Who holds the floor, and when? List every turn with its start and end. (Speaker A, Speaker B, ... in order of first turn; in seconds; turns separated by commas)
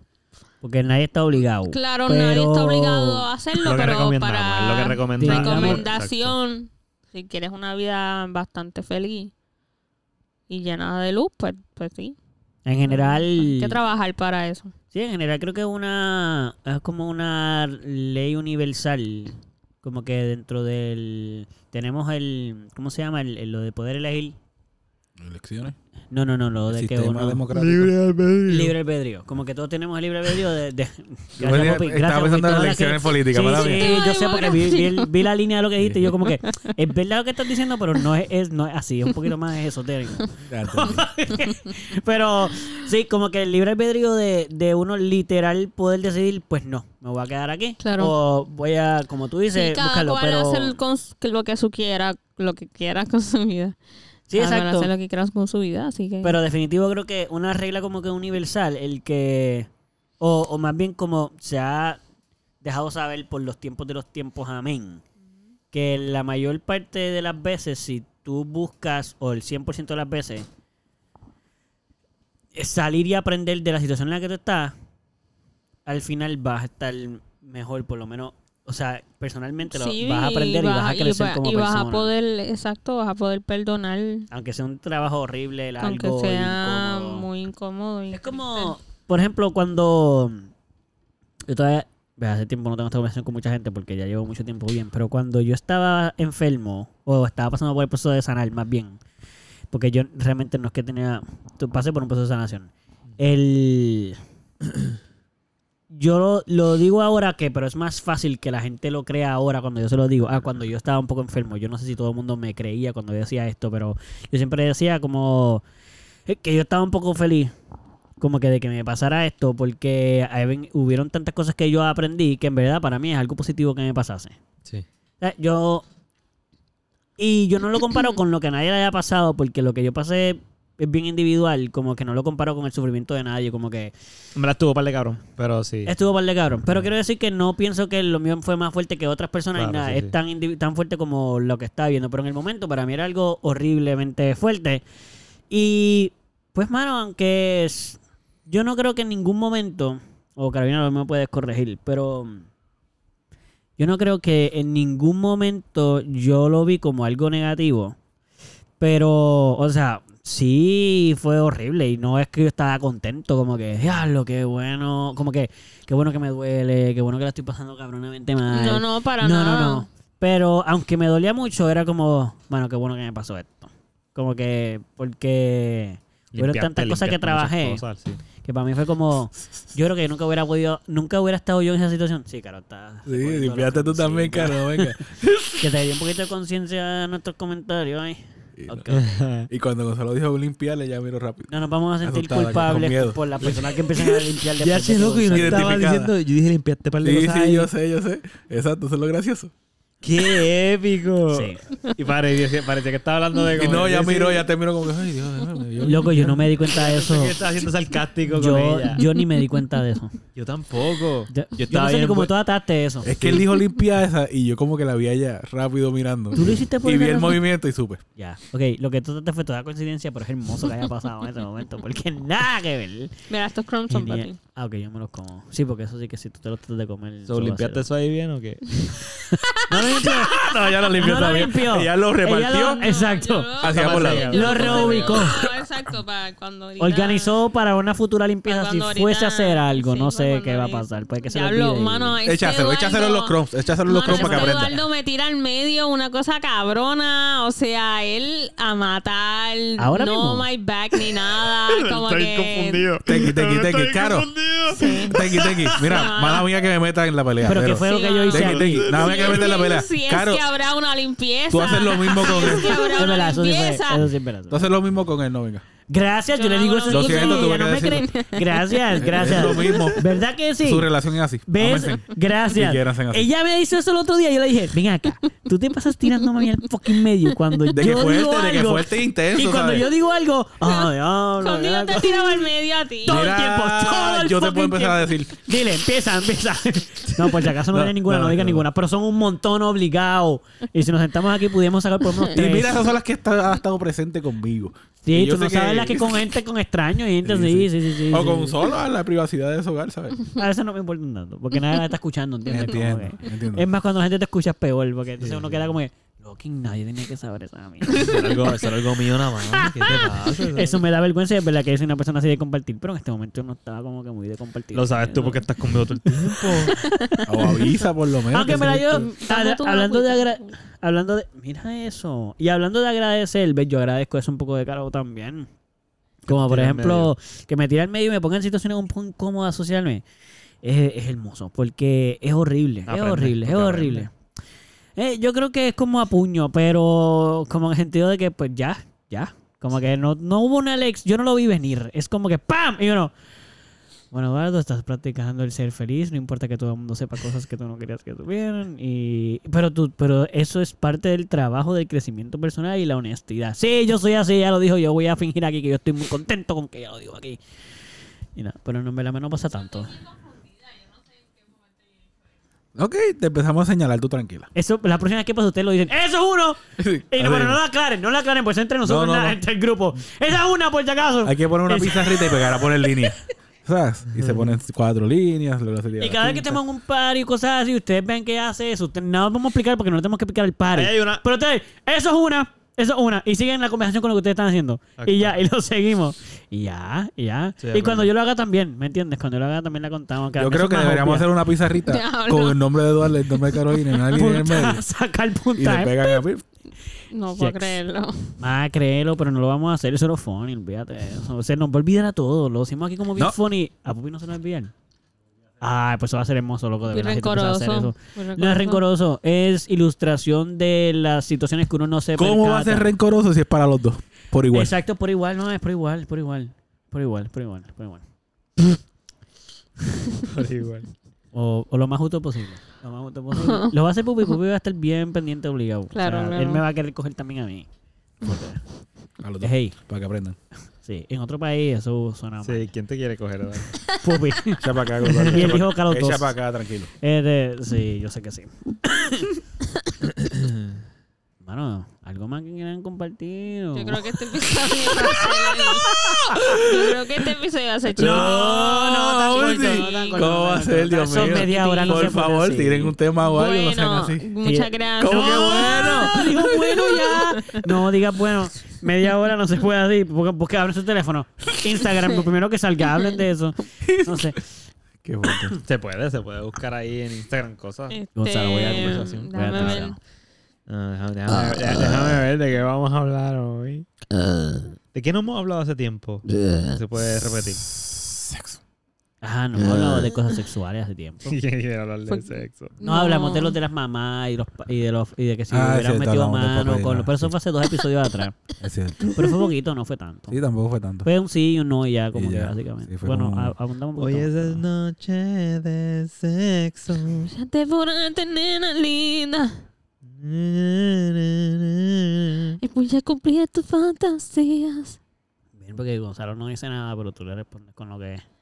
Speaker A: 0.6-3.2, Speaker B: 1.7-9.3, Speaker C: 3.6-6.3, Speaker A: 5.2-5.8, Speaker B: 10.5-12.2, Speaker A: 12.7-13.8, Speaker B: 12.9-14.7, Speaker A: 14.9-24.4, Speaker D: 25.2-25.7, Speaker A: 26.1-27.4, Speaker D: 26.7-27.9, Speaker C: 27.5-28.7, Speaker A: 28.5-50.8, Speaker D: 31.4-34.0, Speaker B: 33.4-35.1, Speaker D: 40.4-41.1, Speaker B: 47.8-48.1, Speaker B: 49.5-53.8, Speaker A: 54.3-54.9, Speaker B: 54.3-56.4, Speaker A: 56.2-59.7, Speaker A: 60.2-62.0, Speaker A: 62.6-65.0, Speaker A: 65.7-70.5, Speaker A: 72.5-74.7, Speaker A: 75.8-82.1, Speaker B: 79.7-84.3, Speaker A: 84.3-87.3, Speaker B: 85.8-88.7, Speaker A: 88.1-90.5, Speaker A: 91.5-99.0, Speaker A: 99.7-104.2, Speaker A: 105.9-115.6, Speaker A: 116.3-117.5, Speaker A: 118.2-124.4, Speaker A: 125.2-125.8, Speaker A: 127.2-133.9, Speaker C: 134.3-135.9, Speaker A: 135.8-144.8, Speaker C: 139.5-140.1, Speaker A: 145.5-152.5, Speaker A: 153.8-158.0, Speaker A: 158.8-177.8, Speaker B: 168.5-169.8, Speaker C: 176.3-178.2, Speaker A: 178.4-184.9, Speaker D: 183.1-185.7, Speaker A: 185.6-189.2, Speaker D: 188.6-188.9, Speaker C: 188.9-189.5, Speaker D: 189.5-191.5, Speaker A: 191.5-195.9, Speaker D: 192.0-193.5, Speaker C: 194.6-197.7, Speaker D: 195.3-196.1, Speaker D: 197.0-199.5, Speaker C: 200.0-204.4, Speaker A: 201.3-201.6, Speaker D: 203.5-206.4, Speaker A: 205.8-207.4, Speaker C: 206.6-209.1, Speaker A: 208.3-210.2, Speaker B: 209.2-209.5, Speaker C: 210.3-212.3, Speaker A: 211.3-213.4, Speaker D: 213.0-218.0, Speaker A: 216.3-217.4, Speaker A: 218.2-223.2, Speaker B: 223.3-224.4, Speaker A: 223.9-227.8, Speaker C: 227.3-228.7, Speaker A: 229.7-235.4, Speaker B: 229.8-230.1, Speaker D: 230.3-232.9, Speaker B: 232.4-237.3, Speaker D: 233.6-234.3, Speaker C: 233.7-235.3, Speaker A: 236.8-242.2, Speaker B: 238.4-243.3, Speaker D: 242.2-244.7, Speaker B: 243.8-252.9, Speaker A: 243.9-244.8, Speaker A: 249.8-250.5, Speaker C: 251.0-256.0, Speaker D: 253.0-254.3, Speaker B: 254.7-256.5, Speaker D: 255.1-260.4, Speaker A: 257.4-258.8, Speaker B: 257.7-264.1, Speaker C: 258.3-259.6, Speaker D: 261.5-263.2, Speaker A: 262.9-264.7, Speaker D: 264.5-265.6, Speaker A: 265.9-270.9, Speaker B: 266.3-270.0, Speaker D: 266.9-268.1, Speaker D: 269.0-270.1, Speaker D: 270.6-273.3, Speaker A: 271.4-282.5, Speaker D: 277.7-279.9, Speaker B: 280.6-283.3, Speaker A: 283.0-292.8, Speaker D: 283.0-285.4, Speaker D: 287.7-288.6, Speaker D: 292.3-296.2, Speaker A: 295.0-298.6, Speaker D: 297.2-300.2, Speaker A: 300.4-308.2, Speaker D: 302.5-303.7, Speaker C: 305.2-305.6, Speaker C: 307.9-310.8, Speaker A: 309.8-315.5, Speaker C: 314.7-316.8, Speaker A: 316.0-317.7, Speaker B: 316.9-317.6, Speaker D: 317.2-319.1, Speaker A: 318.3-325.5, Speaker B: 318.4-320.5, Speaker A: 326.2-330.0, Speaker C: 326.3-327.1, Speaker A: 330.6-334.1, Speaker C: 332.9-334.1, Speaker A: 334.9-343.1, Speaker A: 344.1-357.4, Speaker A: 358.4-360.1, Speaker D: 362.7-364.5, Speaker A: 364.5-372.9, Speaker D: 366.8-367.6, Speaker D: 368.8-369.4, Speaker D: 371.2-376.6, Speaker C: 374.1-374.5, Speaker A: 376.0-391.3, Speaker C: 380.7-381.2, Speaker C: 385.0-385.3, Speaker C: 387.6-388.1, Speaker D: 390.4-394.9, Speaker B: 391.8-392.7, Speaker A: 394.1-396.2, Speaker D: 395.5-396.4, Speaker B: 397.1-398.4, Speaker A: 397.4-397.8, Speaker A: 398.4-404.7, Speaker A: 405.6-412.9, Speaker B: 406.9-408.8, Speaker D: 412.1-414.7, Speaker A: 414.5-418.0, Speaker C: 420.2-420.9, Speaker A: 421.3-427.7, Speaker B: 423.4-423.7, Speaker B: 425.9-426.6, Speaker A: 428.2-428.6, Speaker D: 429.2-430.4, Speaker A: 429.4-429.8, Speaker A: 430.8-432.7, Speaker C: 432.4-433.8, Speaker A: 434.0-436.4, Speaker D: 434.6-436.9, Speaker C: 435.1-435.5, Speaker A: 437.0-439.4, Speaker C: 440.2-440.6, Speaker A: 441.4-444.1, Speaker B: 443.7-448.7, Speaker D: 445.6-447.1, Speaker A: 447.9-452.9, Speaker D: 447.9-454.3, Speaker B: 449.3-450.3, Speaker B: 451.1-452.1, Speaker B: 453.2-457.6, Speaker A: 454.4-464.4, Speaker D: 455.0-457.2, Speaker D: 463.8-464.4, Speaker D: 465.0-465.6, Speaker C: 465.6-469.9, Speaker B: 467.9-469.9, Speaker A: 468.1-470.0, Speaker C: 470.7-473.9, Speaker C: 474.9-477.6, Speaker D: 477.6-478.6, Speaker A: 479.2-481.4, Speaker C: 481.3-482.8, Speaker B: 482.1-483.6, Speaker A: 482.8-488.4, Speaker D: 485.5-487.3, Speaker D: 488.6-489.3, Speaker A: 489.0-490.4, Speaker D: 490.3-491.1, Speaker A: 491.0-494.6, Speaker D: 492.1-493.5, Speaker C: 494.0-497.3, Speaker B: 497.2-499.6, Speaker C: 500.0-502.6, Speaker B: 502.6-505.0, Speaker A: 505.6-508.2